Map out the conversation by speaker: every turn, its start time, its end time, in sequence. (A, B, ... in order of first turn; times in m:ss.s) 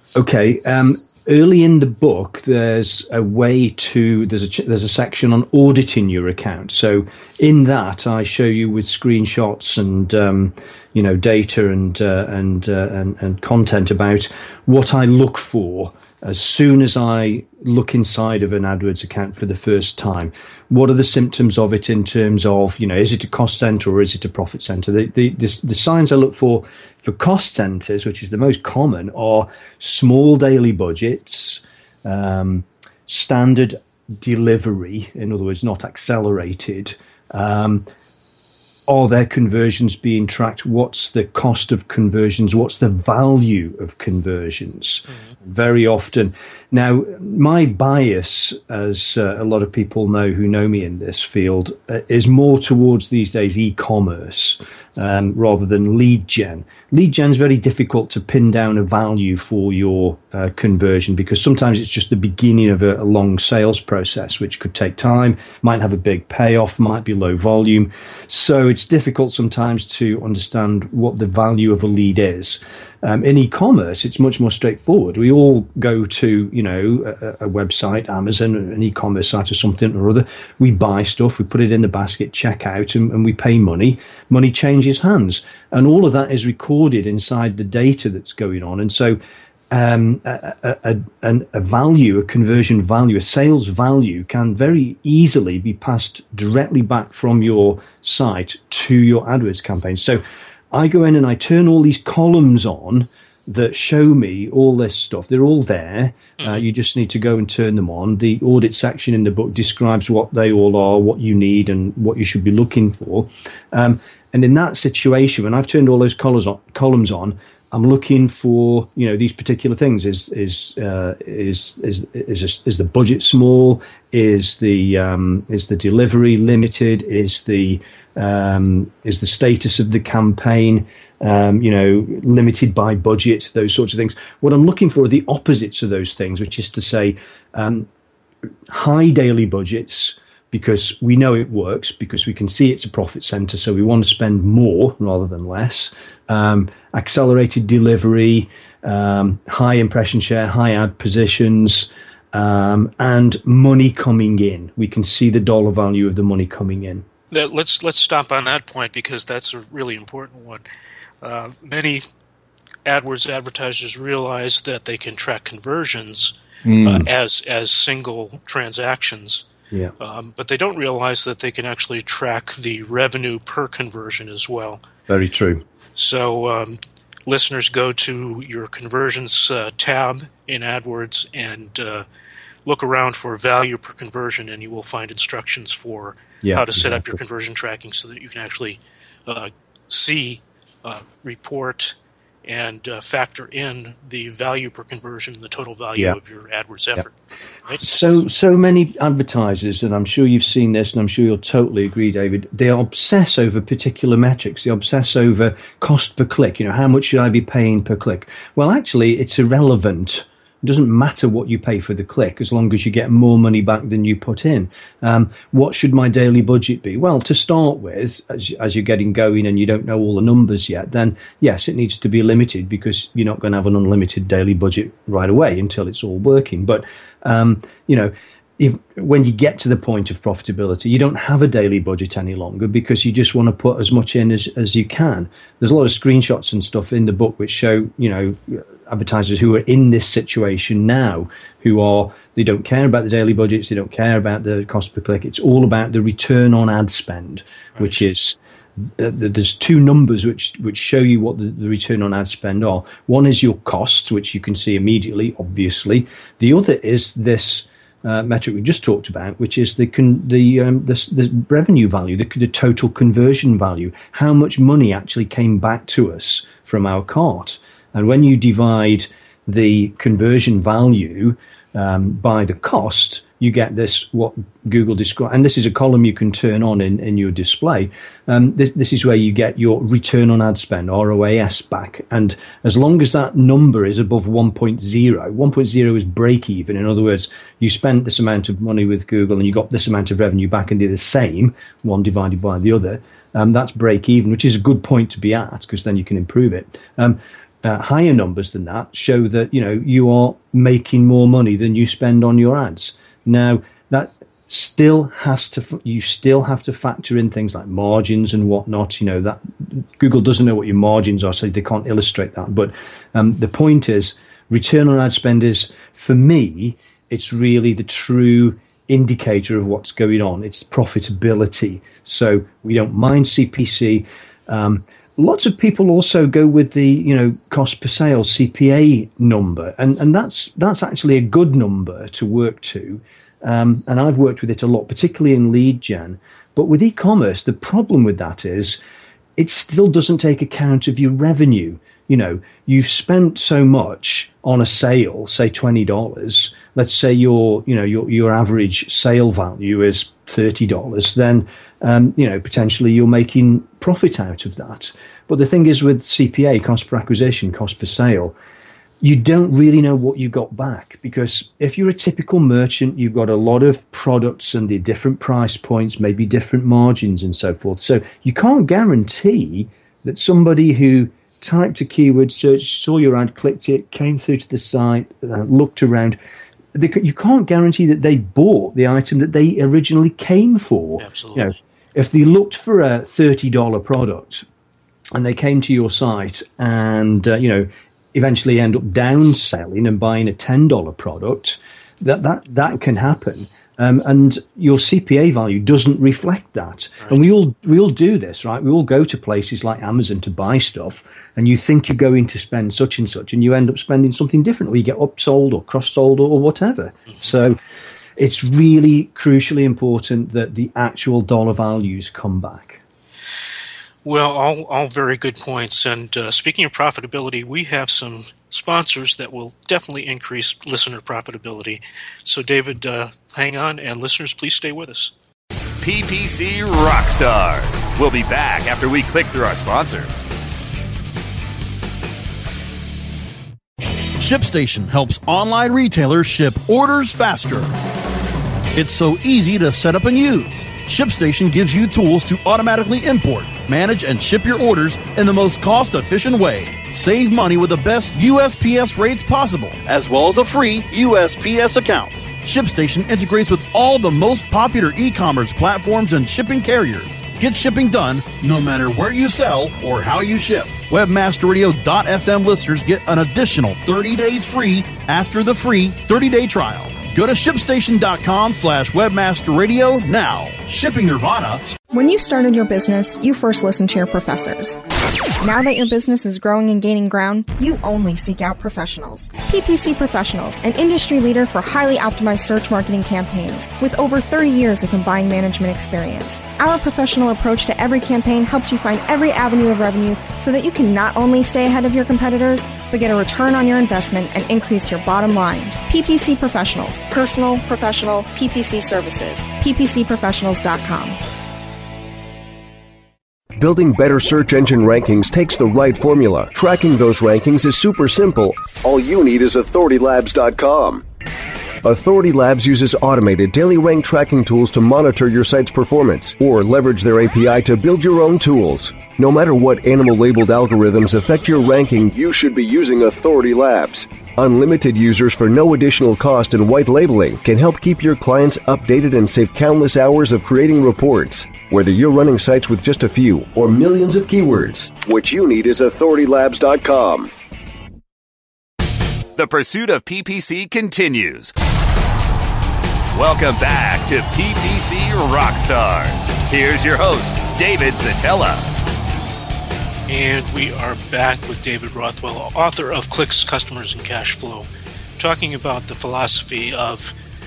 0:00.2-0:37.8 A
0:38.9-1:29.2 A
1:29.7-2:17.9 A
1:46.4-1:46.6 B
2:18.7-2:37.1 A
2:37.3-2:40.6 B
2:41.2-2:42.0 B
2:42.8-2:49.5 B
2:46.7-2:47.1 A
2:50.0-2:54.8 B
2:55.1-2:55.6 A
2:56.0-3:02.0 B
3:02.6-3:17.1 B
3:06.4-3:07.2 A
3:17.8-5:38.8 A
4:07.8-4:08.0 B
5:39.4-5:58.4 A
5:59.0-6:16.2 A
6:16.7-6:24.4 A
6:21.0-6:21.6 B
6:25.2-6:47.6 A
6:48.2-6:52.8 A
6:54.0-7:05.1 B
7:05.8-7:10.2 C
7:14.2-7:17.7 D
7:18.7-7:51.8 D
7:51.9-7:54.8 E
7:55.4-8:21.2 E
8:23.6-8:31.0 F
8:31.8-8:57.3 F
8:59.4-9:01.5 C
9:03.1-9:08.7 C
9:10.1-9:17.1 B